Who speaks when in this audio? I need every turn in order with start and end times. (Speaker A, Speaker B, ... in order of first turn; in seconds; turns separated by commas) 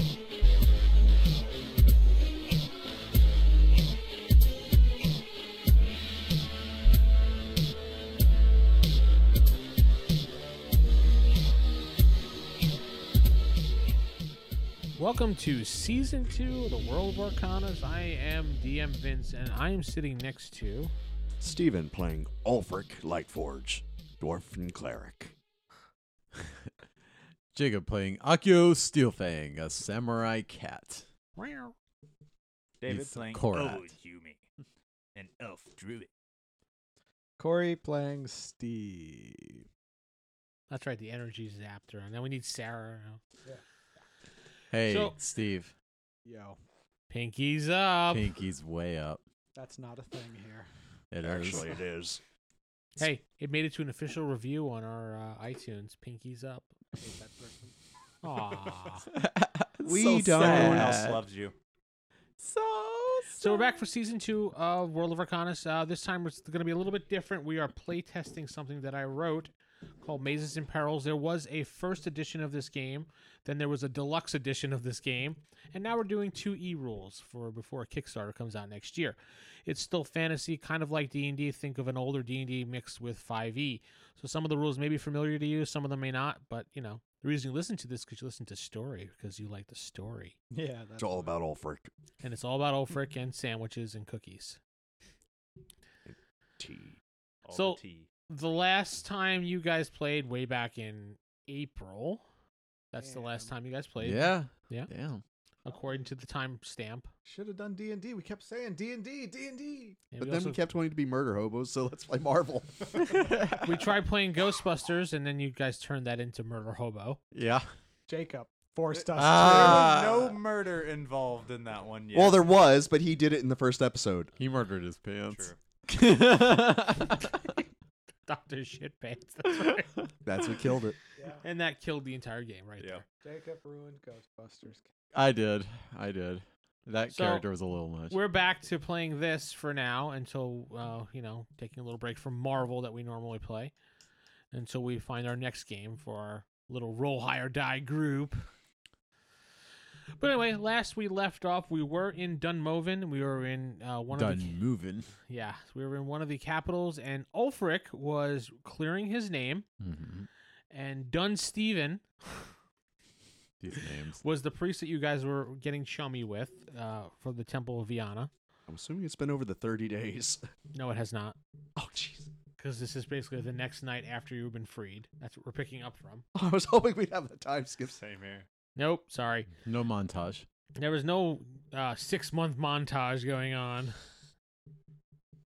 Speaker A: 15.0-20.9, Speaker B: 21.4-25.3, Speaker C: 27.5-31.1, Speaker A: 31.4-31.8, Speaker D: 32.8-34.4, Speaker C: 32.9-33.9, Speaker D: 35.1-36.1, Speaker E: 37.4-39.6, Speaker A: 40.7-43.2, Speaker C: 44.7-45.7, Speaker A: 44.8-45.2, Speaker E: 46.2-46.6, Speaker A: 47.1-48.3, Speaker C: 48.1-49.2, Speaker E: 49.6-50.7, Speaker C: 51.1-51.7, Speaker B: 51.2-52.2, Speaker A: 53.0-56.7, Speaker E: 57.0-57.7, Speaker A: 58.2-59.1, Speaker C: 59.1-61.2, Speaker D: 59.8-61.5, Speaker C: 62.4-63.8, Speaker A: 63.4-90.3, Speaker E: 90.5-91.4, Speaker B: 91.0-91.9, Speaker A: 92.2-94.6, Speaker B: 96.1-97.0, Speaker D: 97.4-98.1, Speaker A: 97.5-102.2, Speaker A: 102.9-104.9, Speaker E: 103.0-103.5, Speaker C: 104.0-105.2, Speaker A: 105.6-107.1, Speaker E: 107.2-110.0, Speaker A: 110.1-110.6, Speaker B: 110.2-113.3, Speaker C: 113.1-113.7, Speaker A: 113.6-117.2, Speaker C: 117.3-117.7, Speaker E: 118.1-120.4, Speaker D: 118.9-122.5, Speaker C: 119.2-120.3, Speaker B: 122.1-124.3, Speaker C: 124.4-127.4, Speaker D: 125.3-125.6, Speaker A: 128.3-130.0, Speaker B: 130.2-131.0, Speaker E: 131.2-131.4, Speaker A: 131.4-133.0, Speaker E: 133.2-134.9, Speaker C: 135.1-138.2, Speaker A: 137.1-137.4, Speaker A: 138.1-143.7, Speaker A: 144.5-148.5, Speaker A: 150.2-154.6, Speaker C: 154.1-155.1, Speaker A: 155.3-159.7, Speaker C: 159.8-160.3, Speaker A: 160.7-162.5, Speaker C: 163.6-164.2, Speaker A: 164.2-168.3, Speaker B: 168.7-170.4, Speaker A: 170.7-171.4, Speaker B: 171.8-172.3, Speaker A: 172.6-176.2, Speaker B: 176.3-178.0, Speaker D: 177.8-178.5, Speaker A: 178.8-179.5, Speaker C: 179.6-180.4, Speaker A: 180.8-184.0